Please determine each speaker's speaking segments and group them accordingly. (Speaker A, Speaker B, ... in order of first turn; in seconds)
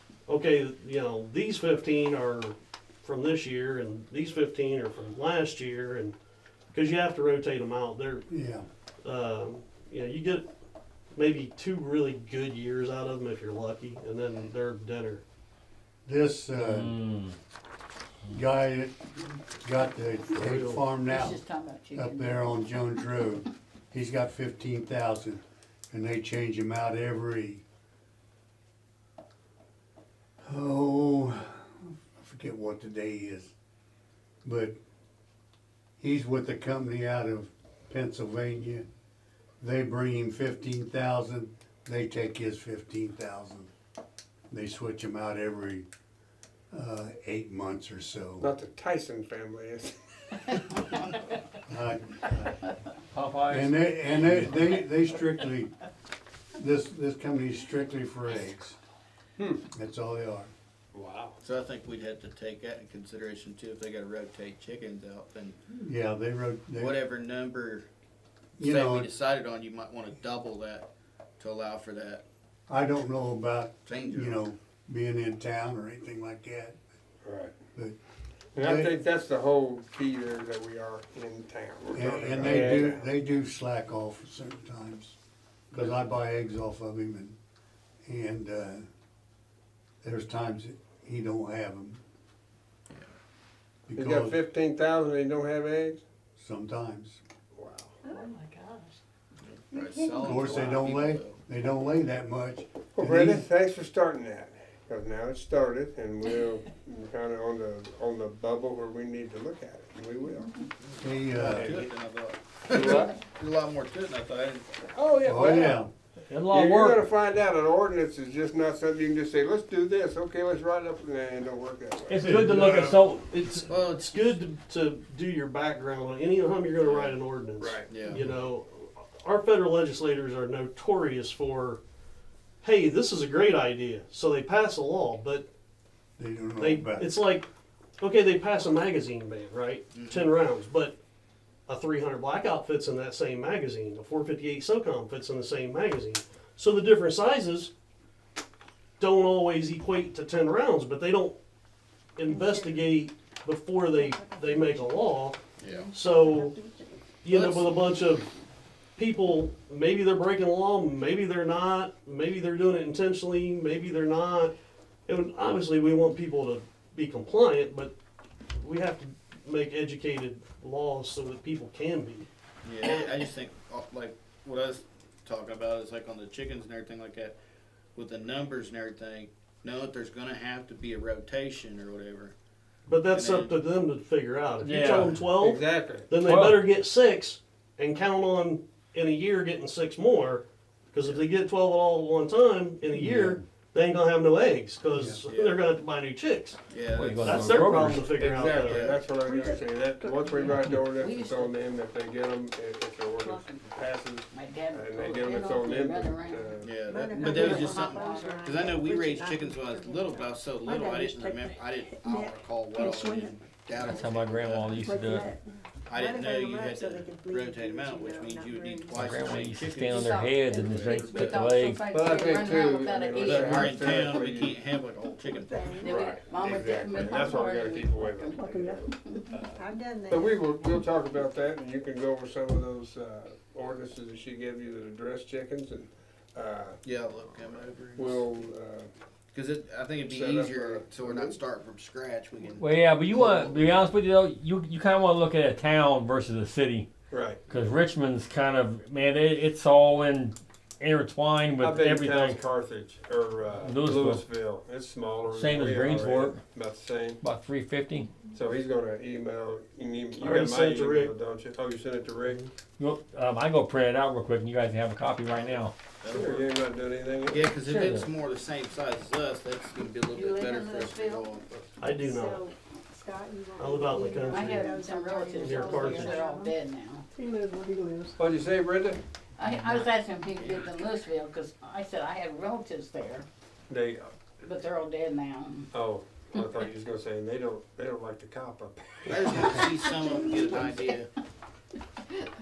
Speaker A: 0.3-6.1, 6.7-8.2, 9.0-10.4, 11.1-15.2, 20.4-20.8, 116.3-117.0, 122.1-131.8, 132.6-135.5, 136.6-137.5, 138.0-141.0, 141.7-147.7, 149.0-151.4, 152.2-155.4, 155.9-156.6, 157.2-158.3, 158.9-164.5, 165.1-167.9, 168.5-172.3, 182.8-196.6, 197.2-198.9, 260.2-261.1, 271.8-272.5, 273.6-274.8, 275.4-276.2
Speaker B: 8.3-8.7, 16.1-17.0, 18.3-19.0, 19.6-21.4, 21.9-27.6, 30.4-33.5, 34.4-34.7, 36.0-38.9, 39.6-43.7, 44.5-45.9, 46.7-48.5, 51.7-52.6, 53.5-55.8, 56.5-58.8, 59.7-60.5, 65.7-67.0, 68.6-69.1, 72.7-76.8, 78.6-78.9, 81.9-85.2, 85.7-87.3, 88.0-88.8, 90.0-92.0, 93.9-94.4, 96.4-97.2, 100.1-103.4, 111.0-111.8, 115.2-115.9, 122.2-122.6, 136.2-137.1, 193.0-193.3, 194.9-195.2
Speaker C: 16.5-17.3, 53.1-54.7, 122.1-123.2, 186.2-186.6, 196.9-198.1, 213.8-215.3, 218.9-221.8, 242.6-246.9, 247.5-252.4, 253.6-254.2, 255.3-256.4, 257.2-258.1, 262.8-265.7, 267.5-268.1
Speaker D: 21.1-22.7, 200.8-201.6, 203.2-203.6, 204.3-208.5, 219.8-224.0, 225.8-229.2, 270.1-271.4, 274.2-277.0, 279.4-283.2, 284.4-285.7, 289.3-291.0
Speaker E: 48.4-49.9, 60.9-61.4, 77.2-77.5, 78.5-83.1, 94.0-96.0, 97.5-98.0, 103.0-110.6, 111.4-111.9, 112.7-113.2, 114.9-115.9, 116.5-122.6, 127.6-127.9, 185.4-186.1, 197.7-206.9, 221.8-224.6, 225.8-229.5, 230.1-236.8, 237.9-238.9, 240.0-241.4, 243.3-243.6, 247.1-247.4, 251.6-257.2, 258.3-262.4, 266.1-267.5, 278.2-279.0, 283.7-284.2, 285.7-289.7
Speaker F: 61.4-65.6, 66.8-67.9, 68.6-70.9, 71.4-72.2, 73.8-74.4, 99.4-101.4, 110.8-114.9, 123.7-124.4, 127.9-128.2, 139.9-140.3, 155.6-155.9, 157.3-157.8, 172.6-177.3, 177.9-182.3, 183.1-183.6, 184.6-185.2, 195.3-195.6, 196.7-197.7, 198.6-199.5, 206.6-215.1, 215.9-221.4, 223.2-226.2, 236.8-238.3, 239.3-243.4, 265.4-266.5, 267.2-271.5, 280.4-280.6, 289.1-291.1
Speaker G: 98.0-98.9, 99.7-100.5, 152.3-153.0, 153.9-157.0, 199.1-200.7, 206.8-213.4, 214.8-219.2, 225.2-225.9, 228.3-230.4, 271.8-276.6, 277.1-278.2